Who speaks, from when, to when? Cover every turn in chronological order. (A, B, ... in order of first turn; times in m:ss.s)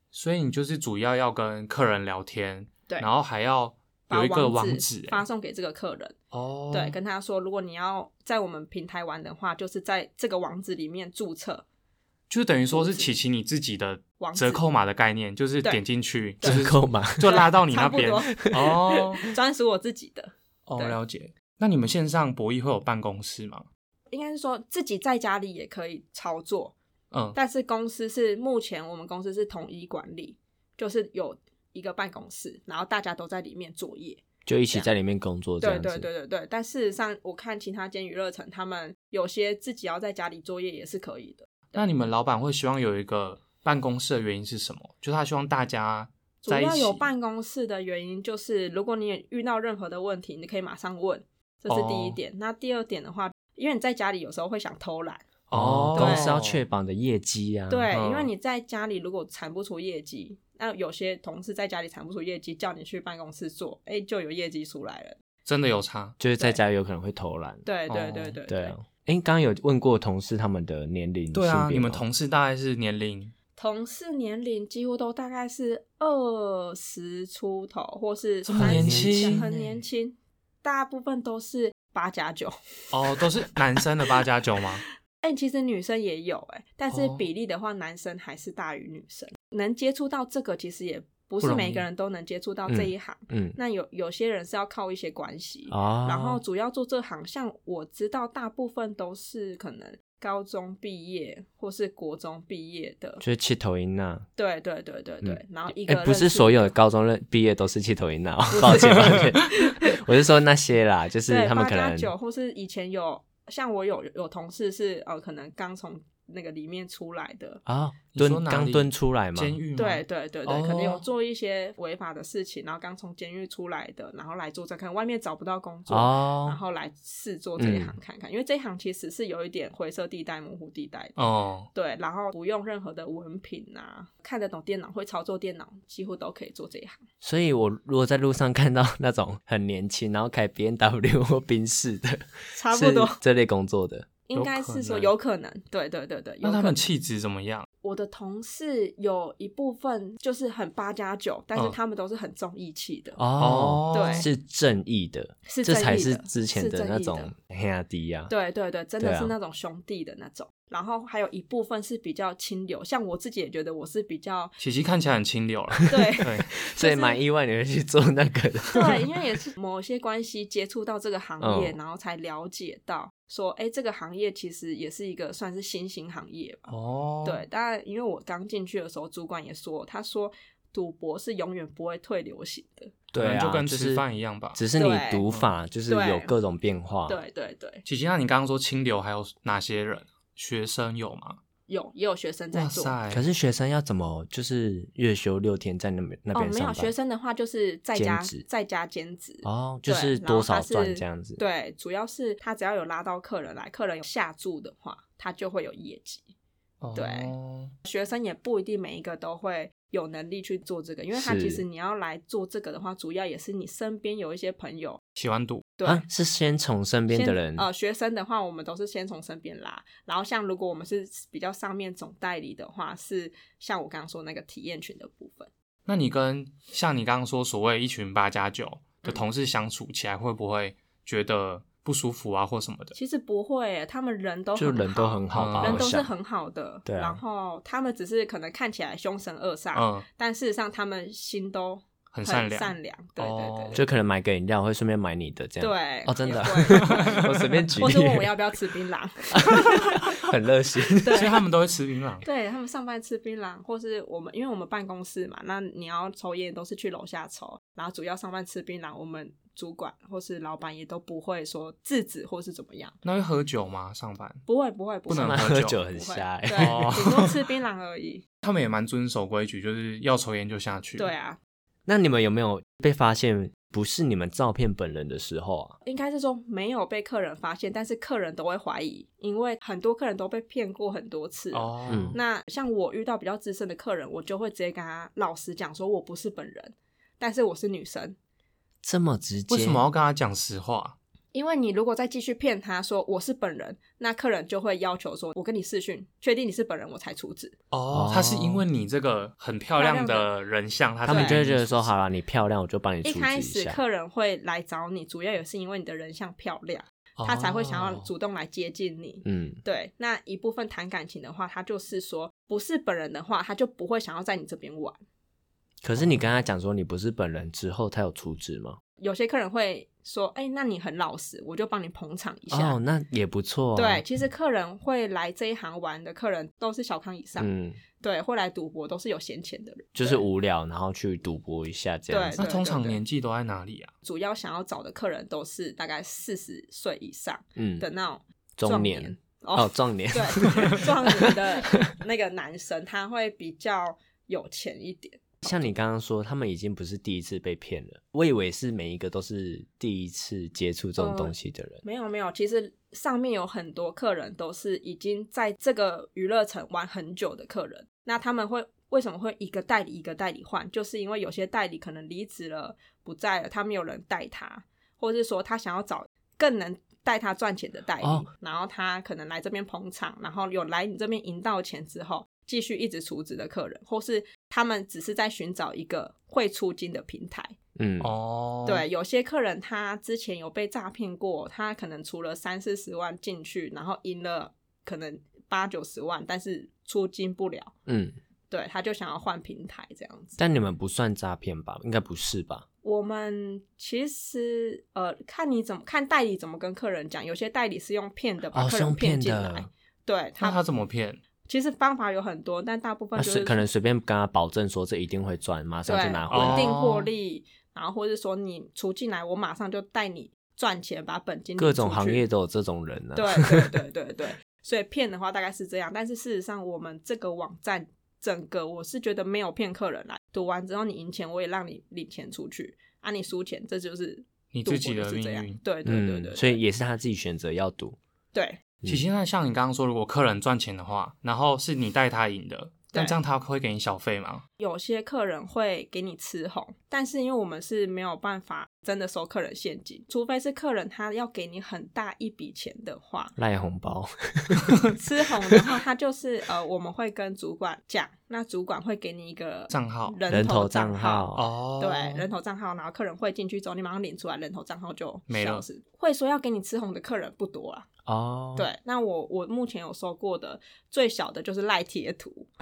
0:00.1-0:05.2 A
0:04.1-0:06.1 B
0:06.3-0:07.0 A
0:06.7-0:11.6 B
0:12.3-0:19.2 A
0:12.7-0:13.1 B
0:14.2-0:14.6 B
0:16.4-0:16.7 B
0:16.4-0:17.3 C
0:17.2-0:18.6 B
0:18.4-0:19.2 C
0:19.2-0:21.0 B
0:20.7-0:23.6 A
0:24.1-0:26.7 B
0:27.1-0:27.4 A
0:27.3-0:34.9 B
0:34.4-0:36.1 C
0:35.6-0:41.8 B
0:41.7-0:47.1 A
0:46.4-0:55.3 B
0:51.7-0:52.2 A
0:55.5-0:56.6 A
0:55.5-0:57.9 C
0:55.9-0:56.3 B
0:57.7-1:05.2 B
0:57.9-0:58.3 A
1:05.4-1:06.2 A
1:06.2-1:07.7 C
1:07.6-1:08.8 B
1:07.9-1:08.3 A
1:08.4-1:12.0 C
1:11.3-1:13.3 A
1:13.6-1:23.3 B
1:18.4-1:19.4 A
1:18.6-1:19.7 C
1:22.9-1:24.8 A
1:25.2-1:43.2 B
1:26.9-1:27.2 A
1:31.4-1:31.8 A
1:32.7-1:33.6 C
1:35.7-1:36.4 C
1:43.2-1:44.3 C
1:44.4-1:46.7 B
1:45.2-1:52.1 C
1:48.5-1:49.8 B
1:48.7-1:49.3 A
1:51.3-1:57.6 B
1:57.6-1:59.6 C
1:58.1-2:01.0 A
1:59.8-2:11.2 B
2:05.9-2:06.6 C
2:07.6-2:07.9 C
2:11.2-2:11.7 A
2:11.7-2:17.0 B
2:17.2-2:24.1 C
2:22.5-2:23.2 B
2:24.3-2:26.9 B
2:24.3-2:25.1 A
2:26.4-2:27.6 A
2:27.8-2:33.2 B
2:33.2-2:38.3 C
2:33.4-2:34.3 A
2:33.9-2:34.3 B
2:35.4-2:37.3 B
2:38.3-2:44.5 B
2:39.0-2:39.3 C
2:44.6-2:46.5 A
2:45.9-2:47.2 B
2:46.6-2:49.0 C
2:48.7-2:56.7 B
2:51.4-2:51.8 C
2:56.7-2:57.4 A
2:57.2-3:02.9 B
3:03.1-3:07.2 C
3:03.1-3:04.6 A
3:04.8-3:05.2 B
3:05.9-3:06.3 B
3:07.1-3:07.8 B
3:07.8-3:11.4 A
3:11.7-3:13.0 B
3:12.5-3:13.2 A
3:13.1-3:16.9 C
3:16.3-3:26.2 B
3:17.9-3:18.4 C
3:19.4-3:21.4 C
3:26.8-3:27.7 A
3:26.9-3:27.3 B
3:27.8-3:35.0 B
3:31.1-3:31.6 C
3:35.2-3:35.7 A
3:35.8-3:36.0 B
3:35.8-3:37.6 C
3:37.1-3:45.5 B
3:45.8-3:52.9 A
3:52.9-4:03.8 B
3:54.6-3:56.1 C
3:55.3-3:55.9 A
3:56.8-3:57.2 C
3:59.7-4:00.0 A
4:02.1-4:03.8 A
4:03.7-4:08.3 C
4:05.6-4:10.1 B
4:06.7-4:07.7 A
4:09.3-4:11.2 C
4:11.0-4:11.4 B
4:11.1-4:12.2 A
4:12.2-4:23.0 B
4:23.0-4:24.4 A
4:24.4-4:28.2 B
4:25.1-4:25.8 A
4:25.1-4:27.0 C
4:26.6-4:27.3 A
4:28.4-4:31.1 A
4:31.0-4:31.4 B
4:31.8-4:35.8 C
4:35.8-4:48.2 B
4:41.5-4:42.2 A
4:41.9-4:42.2 C
4:48.8-4:49.8 C
4:49.5-4:51.0 A
4:51.3-4:57.5 B
4:57.7-5:01.9 A
4:57.9-4:58.6 C
4:59.8-5:00.3 B
5:01.0-5:03.8 C
5:01.1-5:01.4 B
5:03.0-5:15.0 B
5:07.2-5:08.1 A
5:09.2-5:09.6 C
5:15.8-5:18.8 C
5:19.0-5:22.8 B
5:22.5-5:24.0 C
5:23.7-5:30.2 B
5:27.4-5:27.8 C
5:29.9-5:32.4 C
5:32.1-5:33.0 B
5:32.4-5:33.9 A
5:34.0-5:45.7 B
5:37.6-5:37.8 C
5:38.6-5:41.9 C
5:45.4-5:51.8 C
5:51.0-6:17.6 B
6:17.8-6:18.1 C
6:18.0-6:18.8 A
6:18.6-6:27.7 B
6:27.9-6:28.1 C
6:28.5-6:30.4 B
6:30.4-6:32.6 C
6:32.8-6:40.6 B
6:38.5-6:39.7 C
6:40.4-6:41.2 A
6:41.4-6:43.6 B
6:43.2-6:46.8 C
6:45.8-6:52.2 B
6:46.3-6:47.1 A
6:51.6-6:53.7 C
6:53.1-7:06.6 B
7:04.5-7:05.6 A
7:05.8-7:08.0 C
7:08.3-7:08.6 B
7:08.8-7:14.4 A
7:14.6-7:23.3 B
7:23.4-7:24.8 C
7:24.9-7:37.9 B
7:29.7-7:30.2 A
7:30.3-7:31.4 C
7:31.3-7:32.3 A
7:35.3-7:35.6 A
7:38.0-7:38.7 C
7:38.5-7:42.5 B